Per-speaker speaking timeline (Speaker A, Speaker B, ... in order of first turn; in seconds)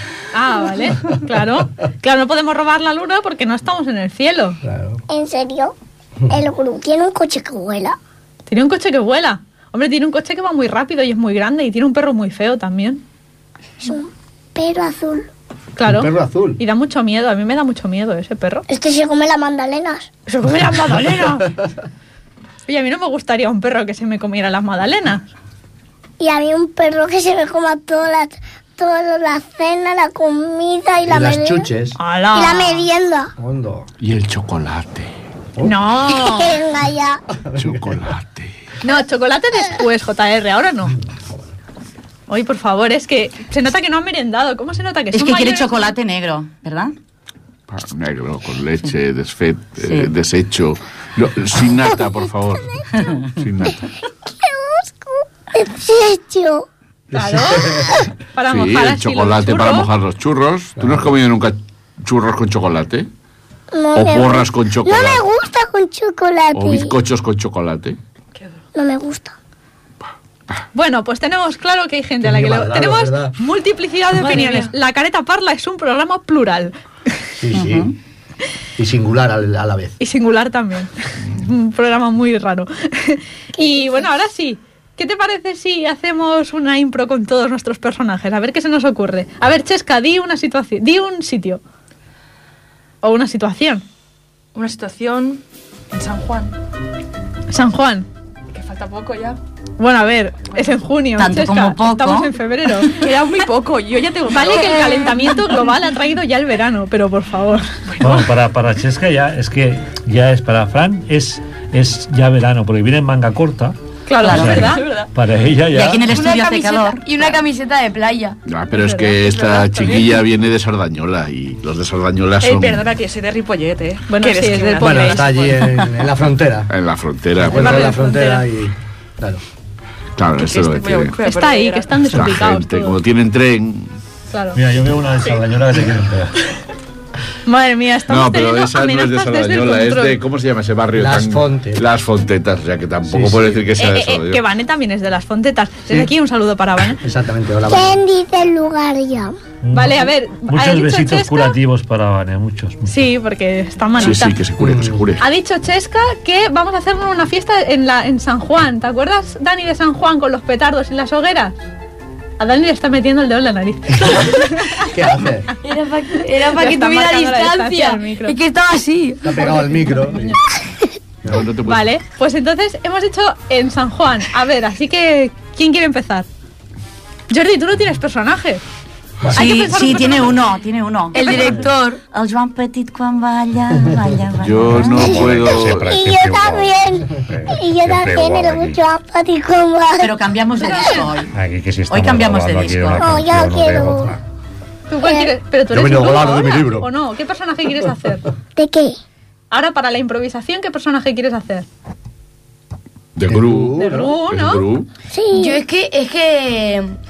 Speaker A: 0.3-4.6, 8.5-13.0, 15.8-18.6, 20.3-21.5, 22.7-25.2, 31.9-32.9, 35.6-36.6, 38.8-40.9, 42.3-45.9, 57.1-59.9, 70.7-76.7, 80.0-91.6, 93.0-93.8, 97.5-98.1, 99.8-103.0, 104.3-107.7, 114.1-114.9, 118.7-119.3, 124.1-125.2, 127.6-128.4, 131.2-133.0, 134.3-134.6, 137.4-140.2, 143.8-147.0, 149.7-151.6, 152.9-154.4, 155.2-161.6, 162.4-164.8, 166.4-168.3, 170.1-170.4, 171.6-176.2, 177.3-178.6, 179.3-180.4, 181.2-181.5, 194.9-198.2, 199.5-201.7, 203.8-204.7
Speaker B: 4.6-5.0, 15.8-16.6, 31.1-32.0, 33.4-33.9, 37.4-38.1, 57.1-57.9, 60.8-61.0, 72.2-73.3, 77.4-77.9, 78.8-79.9, 124.8-126.7, 127.4-129.4, 140.9-141.8, 143.1-143.6, 147.0-148.0, 154.6-155.0, 164.9-165.5, 169.2-170.3, 195.7-196.9, 203.3-204.1
Speaker C: 5.1-5.7, 6.3-8.0, 13.8-15.3, 18.7-20.1, 26.2-31.7, 32.3-33.3, 36.1-37.2, 54.4-56.7, 63.7-67.0, 68.7-69.3, 147.7-149.4, 185.0-191.0, 193.0-194.1, 195.0-195.3, 198.6-199.0, 205.1-205.6
Speaker D: 34.0-35.1, 37.6-38.5, 47.7-53.8, 58.5-63.1, 63.9-65.2, 66.5-68.0, 118.5-122.8, 126.7-128.0, 130.2-131.2, 132.0-133.9, 138.1-144.4, 154.0-155.2, 171.2-171.8, 184.4-185.9, 203.1-204.9
Speaker E: 45.1-46.9, 49.8-50.1, 77.5-77.9, 101.2-102.3, 114.2-114.7, 115.7-117.4, 179.3-185.2, 190.0-191.3, 191.9-193.1
Speaker F: 68.3-68.6, 74.2-74.7, 94.5-96.5, 98.5-99.4, 103.0-105.8, 107.9-108.3, 114.6-115.1, 119.2-120.2, 122.4-125.8, 127.5-128.3, 130.3-132.2
Speaker G: 108.0-113.7, 114.3-116.0, 134.5-136.3, 149.6-153.1, 184.7-188.8, 191.3-194.2
Speaker H: 116.0-118.4, 165.6-170.1, 181.1-182.0, 205.3-206.9